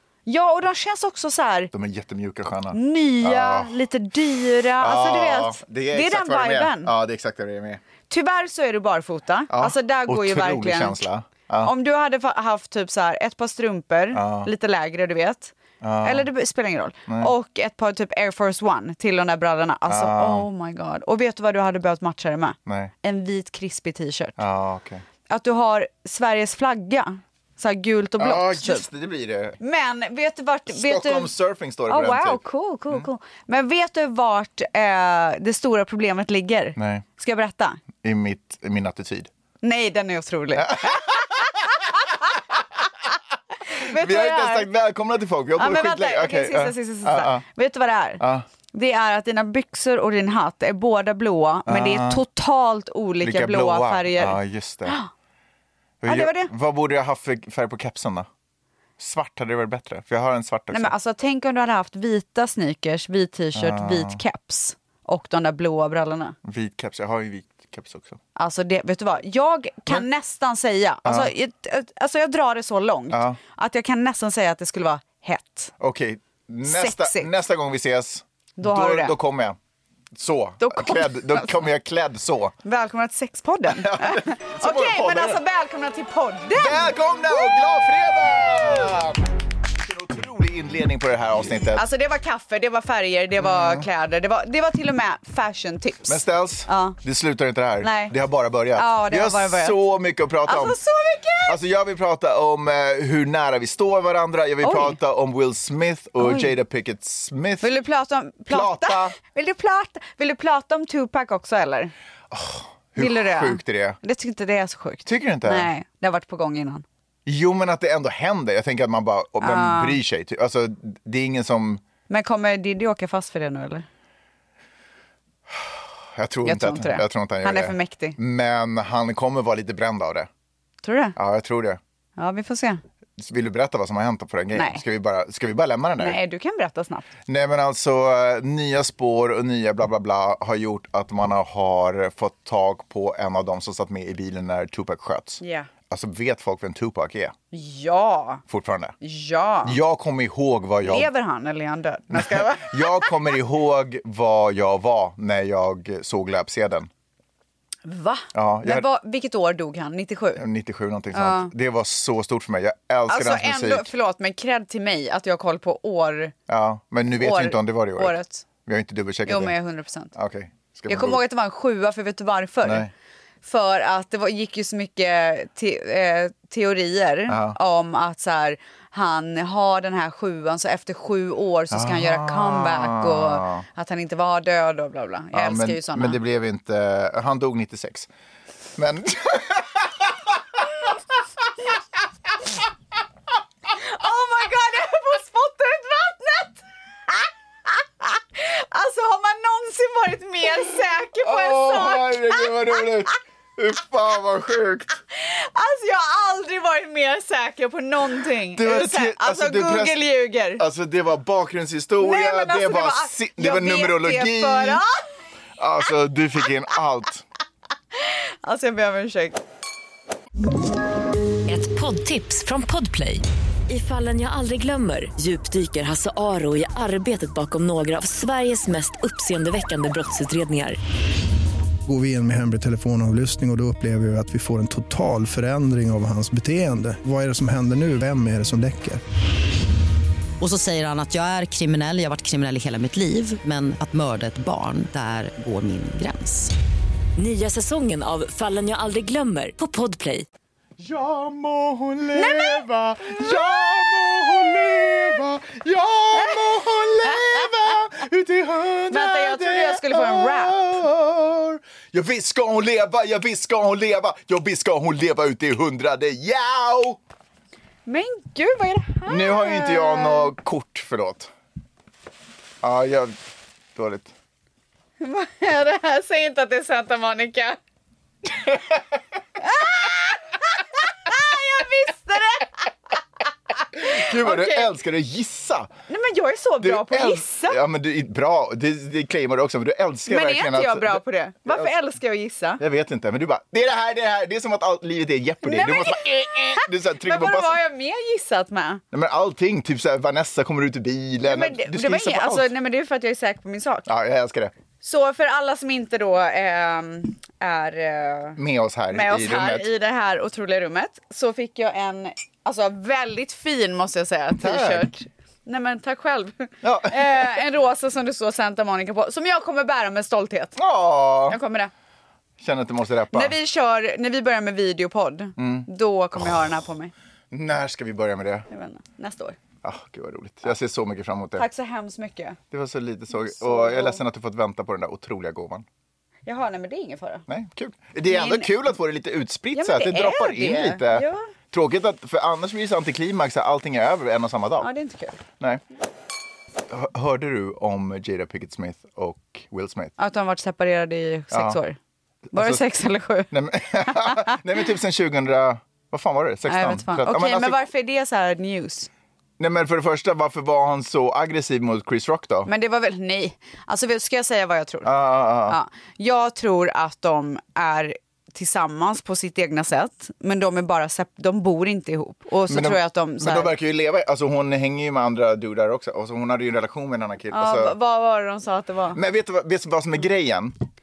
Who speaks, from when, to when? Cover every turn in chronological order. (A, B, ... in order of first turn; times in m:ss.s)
0:00.2-0:01.7 A
0:01.7-0:03.7 B
0:02.7-0:06.9 A
0:04.8-0:07.8 B
0:08.1-0:11.0 A
0:09.5-0:11.7 B
0:11.6-0:24.4 A
0:14.1-0:14.5 B
0:15.8-0:16.3 B
0:17.1-0:17.3 B
0:19.9-0:20.5 B
0:22.6-0:22.9 B
0:24.4-0:25.0 B
0:25.3-0:28.8 A
0:28.2-0:29.6 B
0:29.6-0:31.3 A
0:30.7-0:33.1 B
0:31.9-0:37.8 A
0:36.8-0:37.0 B
0:38.0-0:39.3 B
0:39.6-0:41.7 A
0:40.6-0:41.2 B
0:43.7-0:44.7 A
0:43.8-0:47.4 B
0:45.6-0:55.1 A
0:48.2-0:48.4 B
0:51.7-0:52.2 B
0:53.2-0:55.0 B
0:56.0-0:58.3 B
0:56.0-0:56.5 A
0:59.0-1:00.9 B
1:00.7-1:06.4 A
1:03.5-1:04.2 B
1:06.4-1:08.2 B
1:08.4-1:15.7 A
1:11.0-1:11.3 B
1:13.1-1:13.4 B
1:15.8-1:19.6 B
1:16.6-1:17.3 A
1:18.6-1:19.1 A
1:20.1-1:22.5 B
1:20.6-1:21.6 A
1:22.6-1:27.6 A
1:23.7-1:25.4 B
1:26.5-1:29.3 B
1:29.8-1:31.8 B
1:31.7-1:37.0 A
1:33.4-1:33.8 B
1:36.0-1:40.8 B
1:37.8-1:38.1 A
1:38.8-1:39.8 A
1:40.4-1:41.6 A
1:41.4-1:47.7 B
1:44.6-1:45.0 A
1:46.2-1:46.6 A
1:47.6-1:51.9 A
1:48.5-1:49.2 B
1:52.3-1:54.0 B
1:53.0-1:56.8 A
1:55.0-1:55.7 B
1:57.2-2:01.8 B
1:59.4-2:00.0 A
2:02.1-2:03.8 A
2:05.5-2:10.3 B
2:06.4-2:08.2 A
2:10.8-2:11.1 A
2:11.2-2:11.8 B
2:12.2-2:12.8 A
2:13.2-2:16.2 B
2:14.5-2:14.8 A
2:16.0-2:17.1 A
2:17.3-2:27.3 B
2:25.4-2:25.7 A
2:27.5-2:28.4 A
2:28.5-2:28.9 B
2:29.0-2:29.8 A
2:29.6-2:31.1 B
2:30.8-2:33.1 A
2:32.1-2:36.9 B
2:37.8-2:40.4 A
2:38.3-2:38.8 B
2:40.4-2:43.9 B
2:41.1-2:41.5 A
2:43.1-2:46.3 A
2:46.5-2:49.5 B
2:47.2-2:48.4 A
2:49.2-2:50.1 A
2:50.1-2:51.2 B
2:50.9-2:52.9 A
2:52.6-2:52.9 B
2:53.4-3:06.2 A
2:57.3-2:57.6 B
3:01.7-3:03.6 B
3:05.3-3:08.1 B
3:08.8-3:10.6 B
3:13.7-3:16.6 A
3:18.0-3:22.9 A
3:21.2-3:25.0 B
3:25.1-3:30.6 A
3:28.5-3:30.0 B
3:30.6-3:34.8 B
3:32.0-3:35.0 A
3:35.6-3:37.2 B
3:38.0-3:39.4 A
3:41.4-3:50.8 C
3:51.8-3:59.0 D
4:00.4-4:06.5 E
4:07.2-4:10.2 C
4:10.8-4:27.0 B
4:12.1-4:12.6 A
4:16.1-4:16.4 A
4:18.9-4:20.8 A
4:27.8-4:30.3 A
4:29.1-4:31.3 B
4:32.6-4:33.2 B
4:33.7-4:34.1 B
4:35.0-4:37.6 A
4:39.4-4:42.6 A
4:43.7-4:44.7 A
4:43.7-4:45.7 B
4:45.9-4:47.6 A
4:46.6-4:51.7 B
4:50.1-4:52.6 A
4:52.6-4:57.6 B
4:55.4-4:58.8 A
4:58.9-5:02.5 B
5:01.2-5:03.9 A
5:03.8-5:04.5 B
5:04.8-5:08.4 A
5:08.4-5:09.7 B
5:08.9-5:20.6 A
5:14.4-5:14.9 B
5:16.6-5:17.4 B
5:20.6-5:21.4 B
5:21.3-5:21.7 A
5:22.4-5:23.4 B
5:23.1-5:26.9 A
5:25.4-5:25.7 B
5:27.3-5:28.5 B
5:28.5-5:29.4 A
5:29.6-5:31.5 B
5:31.4-5:32.4 A
5:32.5-5:35.6 B
5:33.1-5:34.0 A
5:36.2-5:37.2 A
5:37.3-5:44.7 B
5:38.1-5:38.5 A
5:39.5-5:41.2 A
5:44.6-5:45.2 A
5:46.7-5:49.9 B
5:50.0-5:51.8 A
5:51.3-5:51.6 B
5:52.3-5:52.6 B
5:52.3-5:53.3 A
5:53.3-5:57.6 B
5:53.8-5:54.4 A
5:56.5-5:58.9 A
5:59.4-6:02.5 B
6:02.4-6:04.9 A
6:04.8-6:05.6 B
6:05.4-6:13.5 A
6:12.5-6:17.8 B
6:17.3-6:19.0 A
6:18.9-6:20.5 B